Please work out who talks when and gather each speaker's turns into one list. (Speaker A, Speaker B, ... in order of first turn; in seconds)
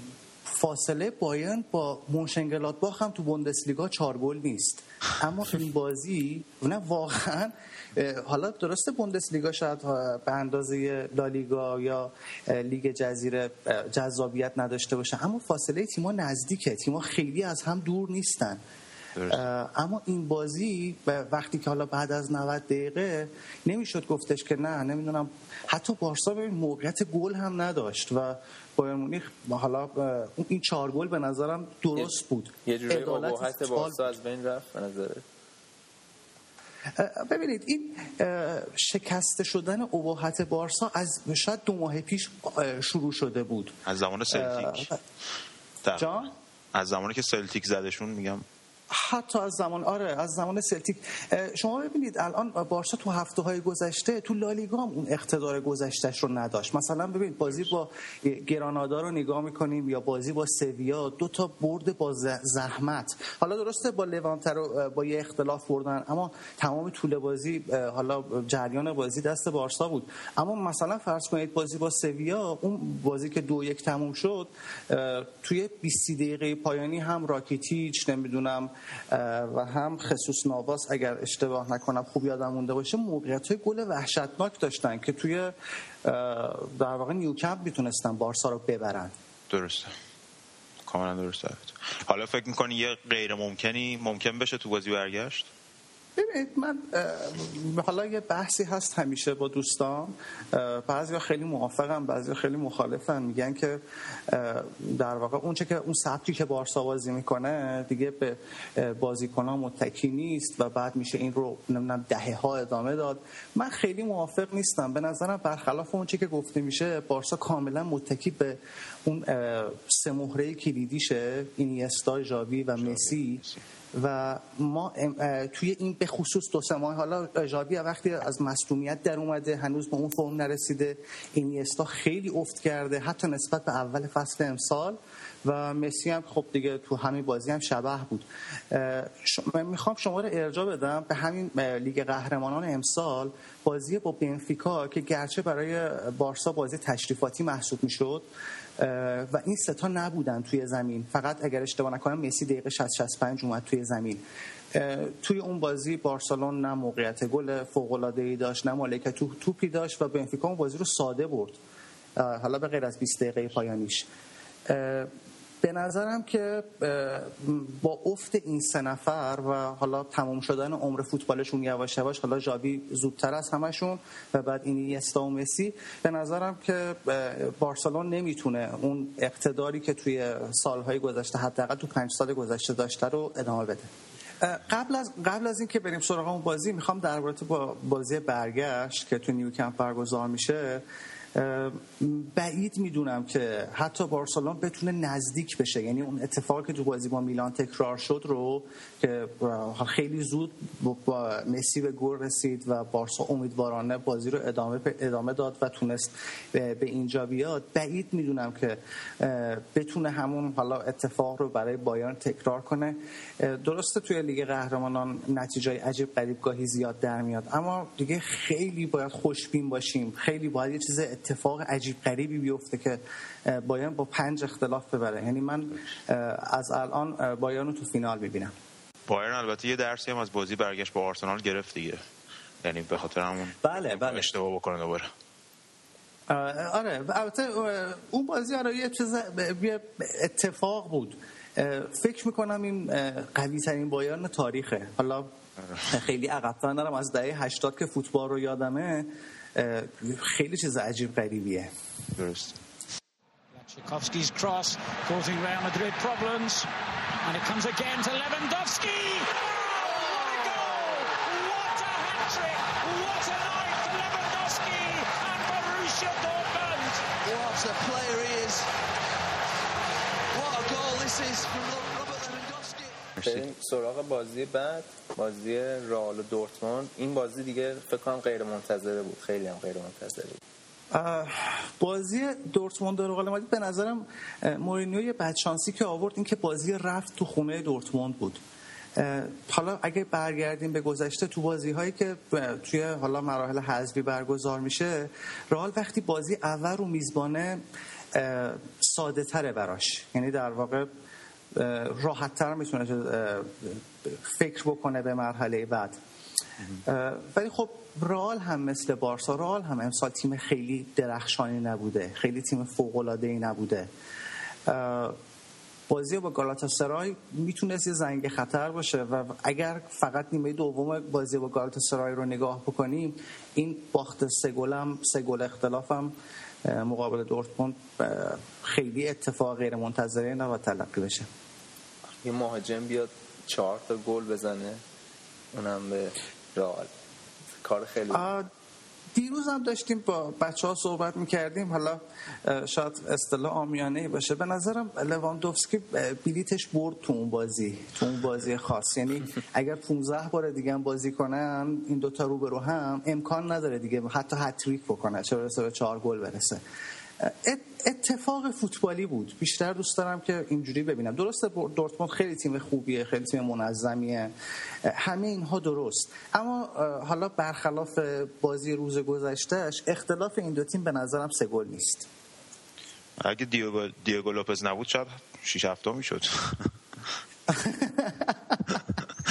Speaker A: 0.5-18.6, 19.3-34.1, 37.0-43.8, 44.3-45.0, 46.0-46.3, 48.9-85.5, 86.0-89.1, 96.2-148.2, 148.8-154.2, 154.7-161.6, 162.2-164.1, 164.7-165.1, 165.6-190.8, 191.3-228.5, 233.6-234.3, 236.3-245.3, 245.9-251.7, 280.9-288.4, 289.0-297.6, 298.1-300.9, 301.5-306.0, 306.9-313.9, 314.7-315.2, 315.9-326.1, 326.6-331.3, 338.1-338.5, 339.1-356.6, 357.2-364.3, 364.9-372.1, 377.5-378.8
Speaker B: 19.1-19.4, 43.9-44.9, 45.8-48.5, 89.5-89.9, 90.8-95.5, 122.8-123.6, 229.1-232.1, 232.6-235.1, 245.6-245.9, 252.2-252.6, 273.2-273.5, 373.2-376.7
Speaker C: 32.6-35.2, 273.2-280.4, 332.2-334.8, 335.5-336.9, 337.6-338.4
Speaker D: 253.5-256.7, 257.2-267.0
Speaker E: 267.2-268.7, 270.3-273.0